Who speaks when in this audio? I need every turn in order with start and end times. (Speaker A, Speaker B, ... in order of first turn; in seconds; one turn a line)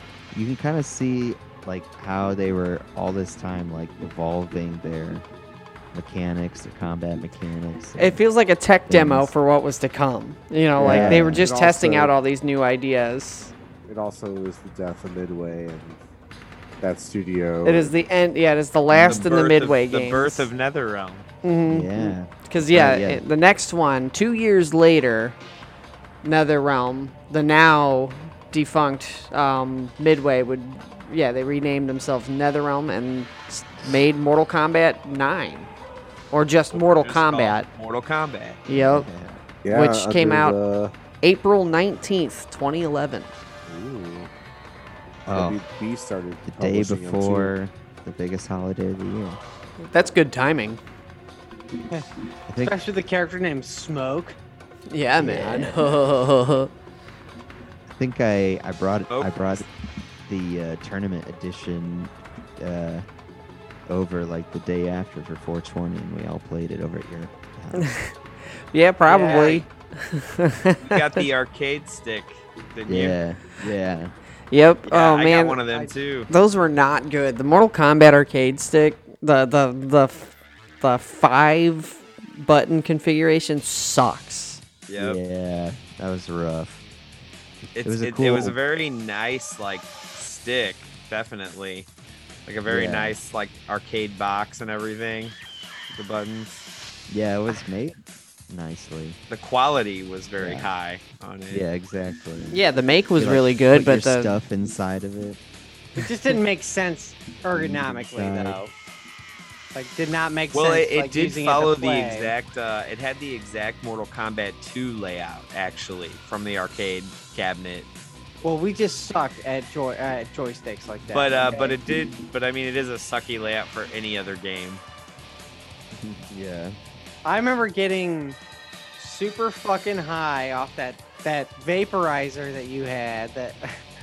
Speaker A: 0.3-5.3
Speaker A: 5.9-8.2
Speaker B: 8.0-13.5
Speaker A: 8.9-9.3
Speaker A: 10.8-11.5
Speaker C: 10.8-12.1
Speaker C: 13.9-16.0
Speaker C: 16.8-17.9
Speaker B: 17.6-20.5
Speaker D: 18.9-21.3
Speaker B: 21.4-25.4
Speaker A: 21.7-23.2
Speaker B: 26.2-35.7
Speaker B: 36.3-37.7
Speaker D: 36.7-38.6
Speaker B: 38.7-39.1
Speaker A: 38.7-39.5
Speaker C: 39.6-40.9
Speaker B: 39.7-40.6
Speaker B: 41.2-43.3
Speaker C: 43.7-44.3
Speaker A: 45.3-45.6
Speaker C: 45.3-47.5
Speaker A: 46.4-49.4
Speaker B: 49.8-50.8
Speaker A: 52.5-52.8
Speaker E: 52.6-54.4
Speaker B: 54.9-56.7
Speaker A: 55.2-55.9
Speaker A: 57.9-59.7
Speaker D: 59.1-59.6
Speaker A: 60.3-63.1
Speaker A: 63.9-67.9
Speaker B: 67.8-71.0
Speaker E: 69.1-69.7
Speaker D: 70.8-73.2
Speaker A: 72.9-74.1
Speaker B: 74.5-75.6
Speaker D: 74.9-76.3
Speaker B: 76.3-84.6
Speaker D: 84.9-85.2
Speaker A: 85.0-86.8
Speaker A: 87.6-88.6
Speaker D: 87.8-91.9
Speaker D: 92.5-95.4
Speaker A: 92.7-93.2
Speaker D: 95.9-96.6
Speaker A: 97.1-98.0
Speaker A: 98.5-99.2
Speaker D: 99.3-101.7
Speaker A: 100.4-100.7
Speaker A: 101.5-102.6
Speaker B: 102.5-104.3
Speaker A: 103.2-105.4
Speaker E: 106.0-108.7
Speaker A: 107.5-108.6
Speaker E: 109.8-112.3
Speaker D: 110.5-117.9
Speaker E: 118.4-121.8
Speaker D: 121.1-124.8
Speaker A: 125.9-126.8
Speaker E: 127.2-128.4
Speaker E: 129.0-133.8